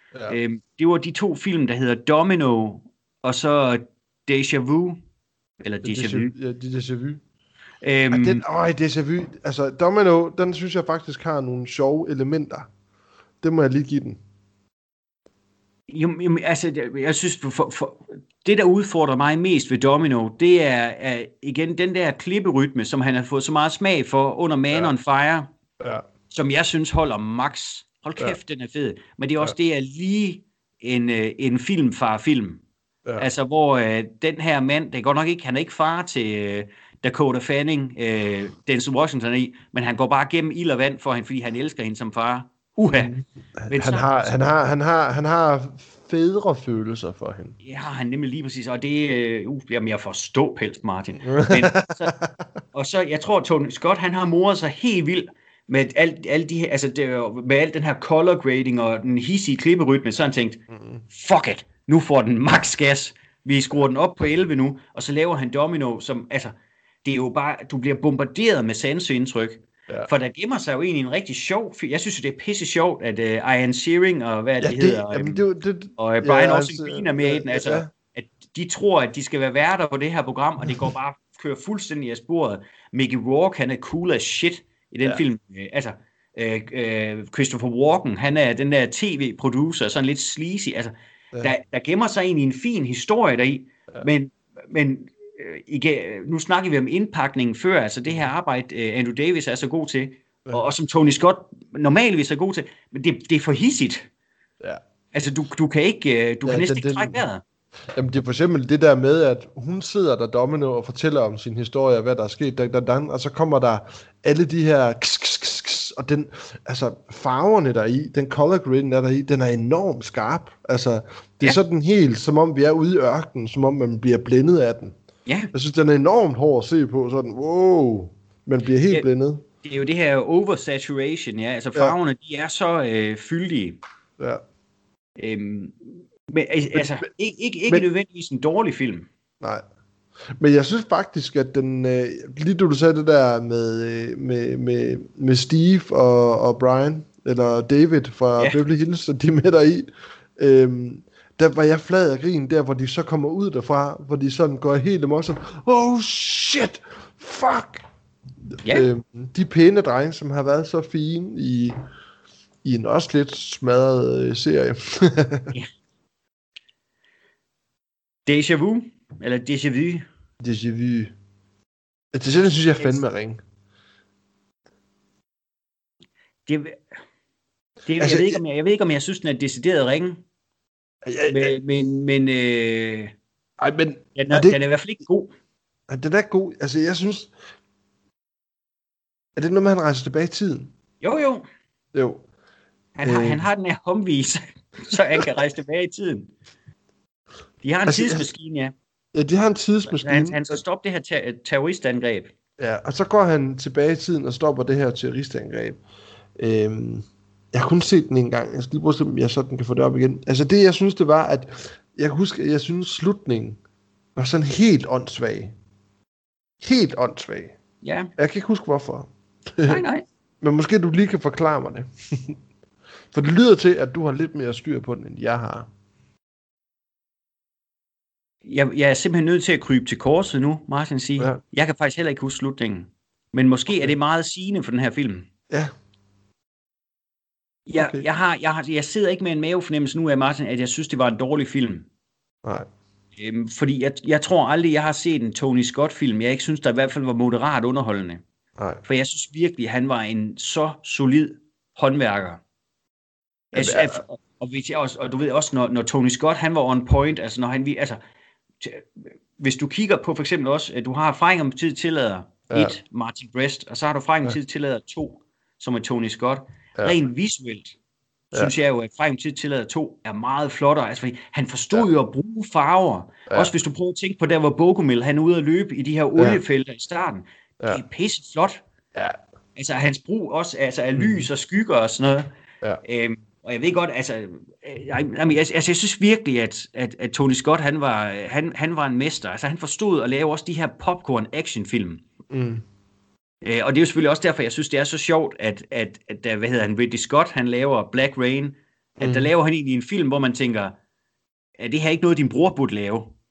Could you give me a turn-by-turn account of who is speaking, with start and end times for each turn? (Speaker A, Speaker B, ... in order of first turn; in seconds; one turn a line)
Speaker A: 0.3-5.0
Speaker A: 5.6-6.3
Speaker B: 5.8-7.2
Speaker A: 7.8-8.4
Speaker B: 8.1-12.7
Speaker B: 13.4-14.2
Speaker A: 15.9-25.5
Speaker A: 26.3-32.6
Speaker A: 33.2-43.1
Speaker B: 42.9-47.5
Speaker A: 43.7-44.4
Speaker A: 47.6-52.1
Speaker B: 51.2-52.4
Speaker A: 52.7-66.5
Speaker B: 60.7-61.0
Speaker A: 67.0-75.4
Speaker B: 74.6-77.9
Speaker A: 76.0-104.1
Speaker A: 105.1-107.4
Speaker B: 106.5-107.2
Speaker B: 107.9-124.9
Speaker A: 125.2-125.5
Speaker B: 125.5-129.4
Speaker A: 129.6-133.8
Speaker A: 135.2-139.1
Speaker B: 136.7-137.0
Speaker B: 140.4-157.8
Speaker B: 158.5-161.8
Speaker B: 162.6-165.5
Speaker A: 168.2-170.0
Speaker B: 170.4-171.1
Speaker B: 172.1-173.4
Speaker A: 176.5-176.8
Speaker A: 177.8-180.2
Speaker B: 178.0-178.4
Speaker B: 181.0-181.6
Speaker A: 181.3-183.1
Speaker B: 183.6-184.6
Speaker A: 184.2-185.3
Speaker B: 185.9-187.3
Speaker B: 189.3-190.7
Speaker A: 191.0-191.4
Speaker B: 191.9-192.2
Speaker A: 192.9-196.3
Speaker B: 193.0-193.4
Speaker A: 197.6-198.7
Speaker B: 197.9-198.2
Speaker B: 199.1-200.6
Speaker A: 199.9-202.3
Speaker B: 202.6-205.8
Speaker B: 206.4-213.6
Speaker B: 214.2-215.5
Speaker B: 216.6-217.5
Speaker A: 217.8-218.1
Speaker B: 218.2-219.8
Speaker A: 219.7-220.0
Speaker B: 220.4-222.3
Speaker B: 223.1-225.7
Speaker A: 228.4-235.3
Speaker A: 237.7-241.9
Speaker B: 237.8-238.0
Speaker A: 243.2-248.2
Speaker A: 248.8-252.4
Speaker B: 253.5-254.0
Speaker A: 253.5-258.0
Speaker A: 258.6-267.8
Speaker B: 262.5-262.8
Speaker A: 268.3-278.6
Speaker A: 279.6-282.3
Speaker B: 281.0-281.3
Speaker A: 282.8-292.0
Speaker B: 292.3-292.6
Speaker A: 293.4-300.8
Speaker B: 299.0-299.3
Speaker A: 301.6-303.1